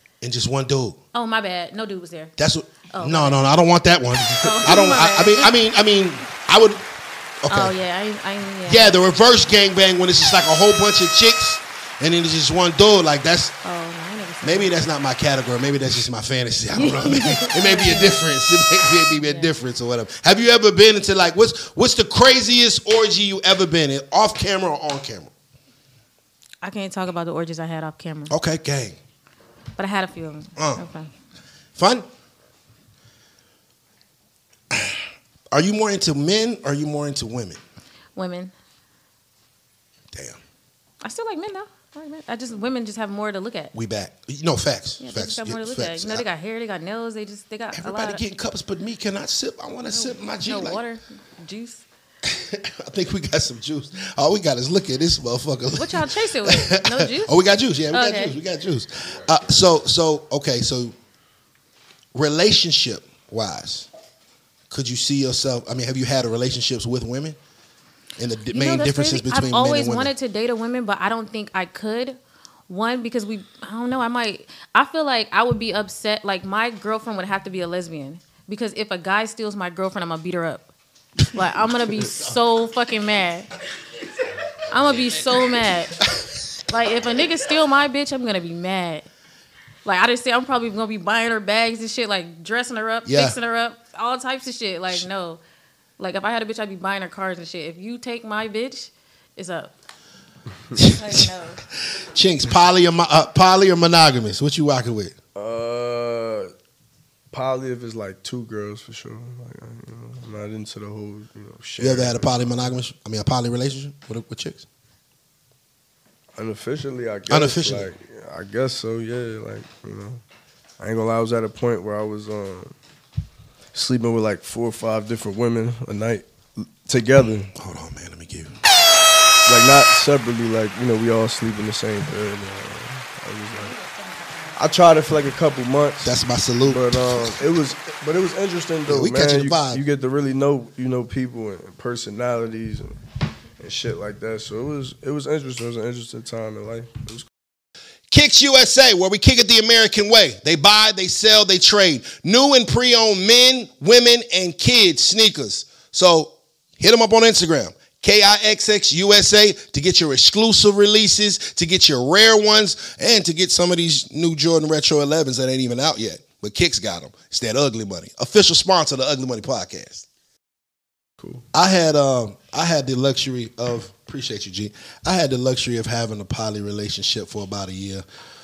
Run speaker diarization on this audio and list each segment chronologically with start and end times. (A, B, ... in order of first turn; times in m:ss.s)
0:00.2-0:01.0 A
0:01.1-0:02.3 B
0:02.4-0:06.8 A
0:02.9-0:03.4 B
0:04.4-0:05.6 B
0:07.4-0:07.7 A
0:07.5-0:09.0 B
0:08.7-0:13.5 A
0:13.6-0:14.8 B
0:14.4-0:25.3 A
0:16.8-0:18.2 B
0:19.1-0:19.5 B
0:26.6-0:28.4 B
0:28.3-0:29.0 A
0:29.8-0:31.1 B
0:30.6-0:30.8 A
0:31.8-0:32.1 A
0:34.7-0:37.6 A
0:38.2-0:38.5 B
0:40.1-0:40.4 A
0:41.0-0:43.7 B
0:43.7-0:46.2 A
0:45.0-0:48.2 B
0:47.7-0:50.8 A
0:49.9-0:51.8 B
0:52.2-1:01.0 A
0:55.8-0:58.4 B
1:02.1-1:03.9 A
1:04.7-1:07.4 A
1:08.2-1:10.1 A
1:08.5-1:20.7 B
1:21.3-1:23.5 B
1:22.0-1:22.3 A
1:24.7-1:26.0 B
1:24.8-1:26.6 A
1:26.7-1:29.1 B
1:29.8-1:35.4 B
1:33.1-1:33.4 A
1:36.0-1:39.7 B
1:40.8-1:45.2 A
1:40.9-1:41.6 B
1:45.4-1:46.5 C
1:47.3-1:52.7 C
1:51.8-1:54.6 A
1:56.4-2:00.2 C
1:57.3-1:57.9 A
2:00.8-2:02.7 C
2:03.7-2:07.5 C
2:07.6-2:08.6 A
2:09.5-2:13.7 C
2:13.6-2:14.8 B
2:14.6-2:23.0 C
2:16.0-2:17.4 A
2:18.9-2:19.8 A
2:23.6-2:27.3 C
2:28.1-2:50.1 A
2:51.5-2:58.0 A